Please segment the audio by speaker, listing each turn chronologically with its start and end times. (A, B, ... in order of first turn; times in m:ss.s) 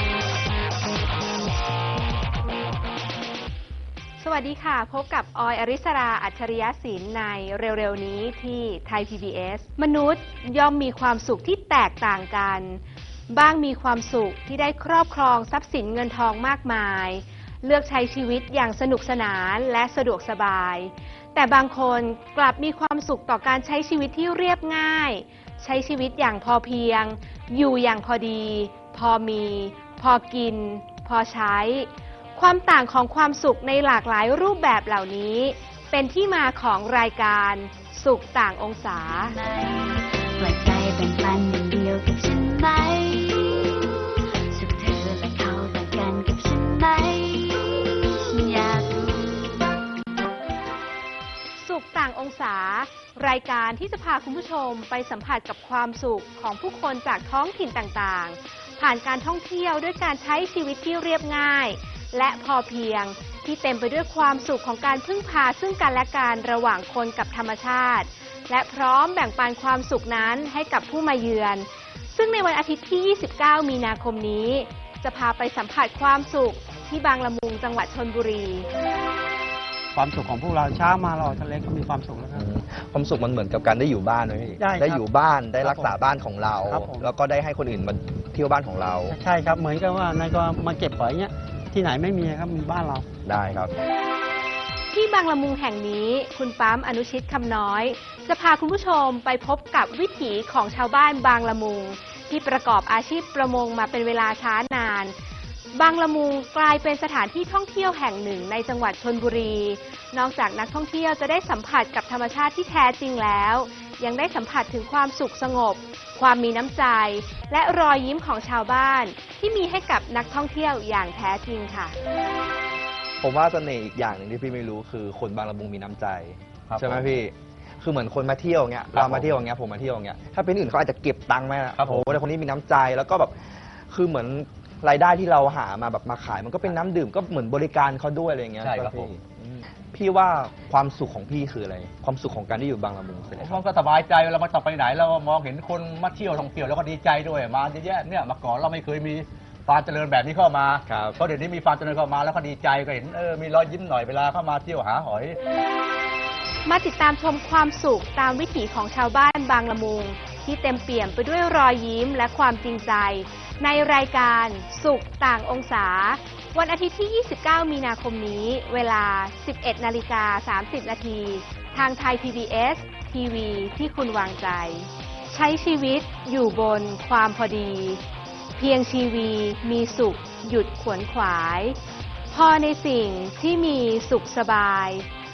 0:04.2-0:39.4 A
0:39.3-0:49.8 B
0:51.6-1:18.7 A
1:19.9-1:22.5 C
1:22.4-1:29.2 D
1:24.6-1:25.0 C
1:25.6-1:25.9 C
1:26.6-1:27.1 C
1:29.1-1:33.1 C
1:33.2-1:33.7 D
1:34.9-1:45.1 A
1:45.7-2:02.0 A
2:03.2-2:23.6 D
2:06.7-2:07.2 E
2:08.9-2:09.4 E
2:11.8-2:12.1 E
2:18.6-2:19.1 E
2:23.4-2:35.4 E
2:30.9-2:31.2 D
2:36.6-2:58.0 A
2:58.6-3:01.8 A
3:02.3-3:05.0 A